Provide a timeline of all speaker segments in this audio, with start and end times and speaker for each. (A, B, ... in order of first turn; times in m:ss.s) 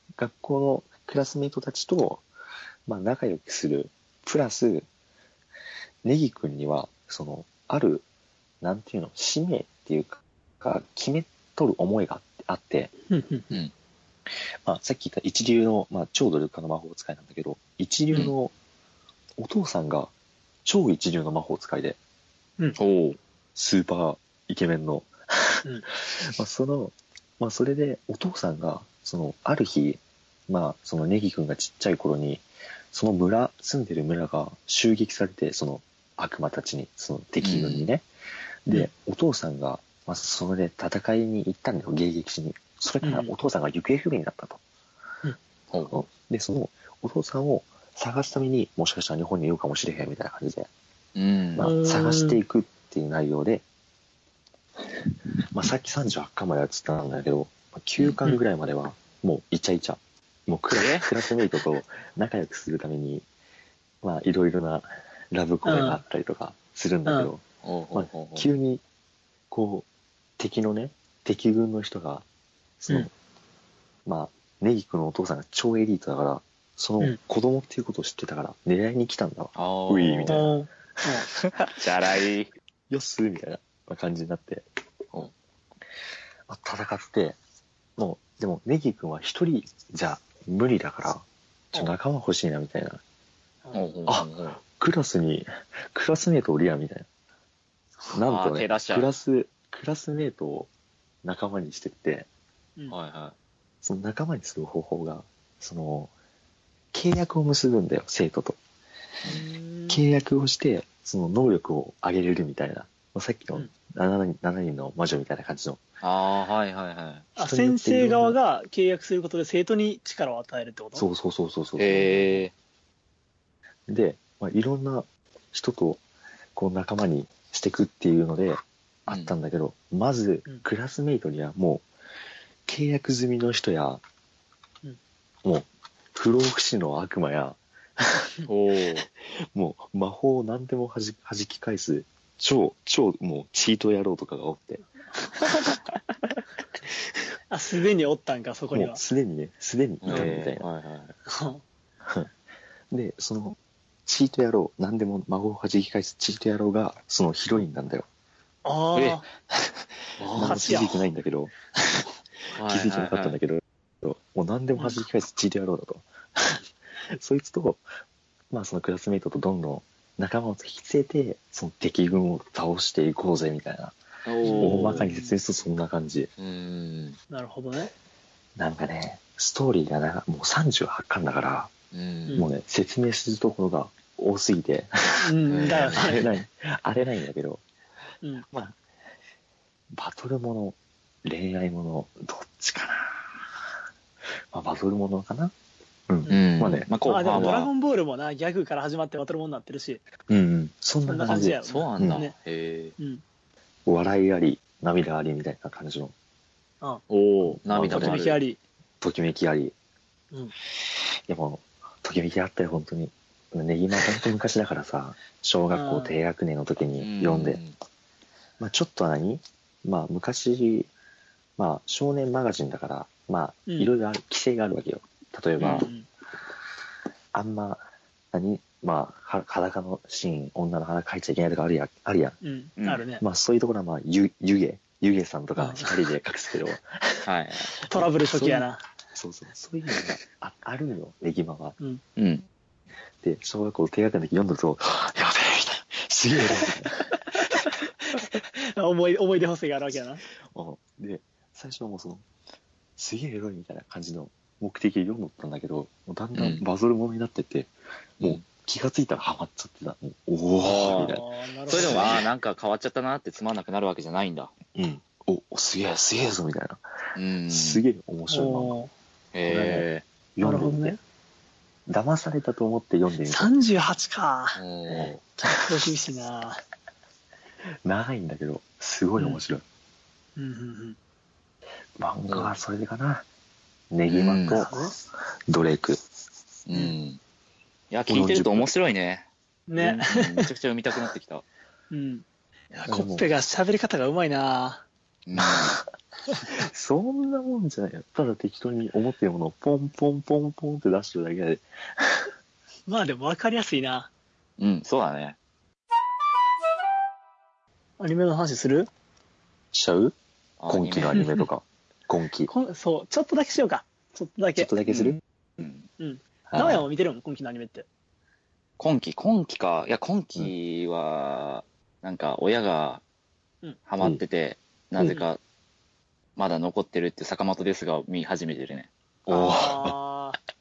0:00.2-0:02.2 A
0:02.9-0:04.9 A
0:06.0-0:08.0 A
0:08.6-0:12.9 A
0:13.1-0:13.5 B
0:14.6-0:18.5 A
0:19.4-0:20.1 A
0:20.6-0:22.0 A
0:22.8-0:23.2 C
0:23.5-0:38.0 A
0:37.4-0:37.8 C
0:38.6-0:44.6 A
0:43.0-0:43.3 B
0:45.7-0:46.0 C
0:45.9-0:50.7 A
0:51.1-0:51.7 C
0:51.6-0:53.6 A
0:51.6-0:52.4 B
0:55.0-1:03.2 A
1:00.7-1:01.1 C
1:04.0-1:08.8 A
1:05.6-1:06.0 B
1:07.0-1:07.3 B
1:07.6-1:08.5 C
1:09.5-1:09.9 A
1:10.4-1:12.2 A
1:12.8-1:13.1 A
1:14.0-1:20.5 A
1:19.6-1:20.5 C
1:20.3-1:21.2 B
1:21.4-1:22.5 C
1:22.9-1:24.6 A
1:26.5-1:27.4 A
1:28.0-1:33.0 A
1:33.6-1:33.9 B
1:33.7-1:34.6 C
1:34.1-1:37.1 A
1:38.1-1:39.1 C
1:38.1-1:40.7 A
1:41.2-1:42.3 A
1:42.9-1:43.3 C
1:43.8-1:46.1 A
1:46.9-1:48.6 A
1:49.2-1:50.0 B
1:49.9-1:55.8 A
1:56.0-1:57.3 C
1:57.4-1:58.4 A
1:57.4-2:01.0 B
2:00.9-2:02.4 A
2:01.8-2:02.5 C
2:03.9-2:06.0 A
2:06.6-2:11.8 A
2:09.1-2:09.3 C
2:12.6-2:14.0 A
2:15.4-2:18.3 A
2:18.4-2:19.1 C
2:19.0-2:24.8 A
2:25.2-2:25.7 B
2:27.5-2:29.0 B
2:28.7-2:30.6 A
2:30.0-2:31.1 C
2:30.1-2:30.3 B
2:31.2-2:31.6 B
2:32.0-2:32.3 A
2:32.9-2:38.0 A
2:38.6-2:39.2 B
2:38.9-2:39.2 C
2:39.5-2:41.5 A
2:40.2-2:40.7 C
2:40.4-2:41.0 B
2:42.5-2:43.4 C
2:42.5-2:47.8 A
2:48.5-2:54.0 A
2:54.2-2:55.1 C
2:54.4-2:55.3 B
2:54.5-2:56.3 A
2:56.4-2:57.2 C
2:57.3-2:57.9 B
2:58.6-3:01.7 A
3:01.9-3:02.4 C
3:02.4-3:07.6 A
3:05.2-3:06.2 B
3:05.5-3:06.3 C
3:08.5-3:08.8 A
3:09.9-3:13.5 A
3:14.5-3:15.5 A
3:16.1-3:17.6 A
3:16.3-3:17.7 C
3:17.0-3:20.0 B
3:20.3-3:22.2 A
3:21.0-3:22.3 B
3:21.6-3:22.9 C
3:23.8-3:26.1 A
3:27.1-3:28.4 C
3:27.4-3:28.2 A
3:27.9-3:28.6 B
3:29.0-3:29.7 A
3:31.3-3:37.6 A
3:35.7-3:36.2 B
3:37.0-3:37.8 C
3:38.6-3:40.9 A
3:41.6-3:45.9 A
3:43.7-3:43.9 B
3:45.6-3:45.9 C
3:45.6-3:46.1 B
3:47.3-3:52.4 A
3:52.4-3:53.2 B
3:53.2-3:57.3 A
3:55.6-3:56.0 B
3:57.2-3:57.7 C
3:57.8-4:01.8 A
3:57.9-3:58.8 B
4:02.2-4:02.5 C
4:03.2-4:07.1 A
4:07.2-4:10.2 B
4:10.5-4:12.2 A
4:13.0-4:22.2 A
4:16.4-4:16.6 C
4:18.2-4:18.4 C
4:20.6-4:24.5 C
4:20.9-4:22.2 B
4:24.7-4:26.8 A
4:27.1-4:27.8 C
4:27.5-4:28.8 A
4:28.3-4:28.9 B
4:29.3-4:30.0 C
4:29.4-4:31.0 A
4:30.4-4:31.0 B
4:31.9-4:33.5 A
4:33.2-4:34.6 B
4:34.6-4:35.2 C
4:34.9-4:35.7 A
4:35.4-4:36.6 B
4:37.8-4:39.6 A
4:39.2-4:39.4 B
4:40.4-4:41.0 B
4:42.0-4:43.2 A
4:42.3-4:42.5 C
4:43.9-4:44.8 A
4:44.1-4:44.6 C
4:44.5-4:44.9 B
4:45.5-4:46.0 A
4:46.7-4:47.2 C
4:47.9-4:49.3 C
4:48.1-4:48.7 A
4:49.7-4:50.5 B
4:49.8-4:51.4 C
4:51.9-4:52.2 B
4:52.8-4:53.3 A
4:52.8-4:54.8 B
4:55.2-4:55.8 C
4:55.4-4:55.8 A
4:56.5-5:02.3 A
5:02.9-5:04.1 B
5:04.6-5:05.4 C
5:08.0-5:08.9 B
5:09.7-5:10.1 A
5:10.6-5:11.3 C
5:10.7-5:12.5 A
5:11.1-5:11.4 B
5:12.5-5:14.7 B
5:14.6-5:15.2 A
5:14.8-5:15.8 C
5:16.0-5:17.8 B
5:16.5-5:16.8 A
5:18.8-5:23.0 C
5:23.9-5:25.4 C
5:26.4-5:28.9 C
5:29.2-5:30.0 A
5:29.3-5:30.4 B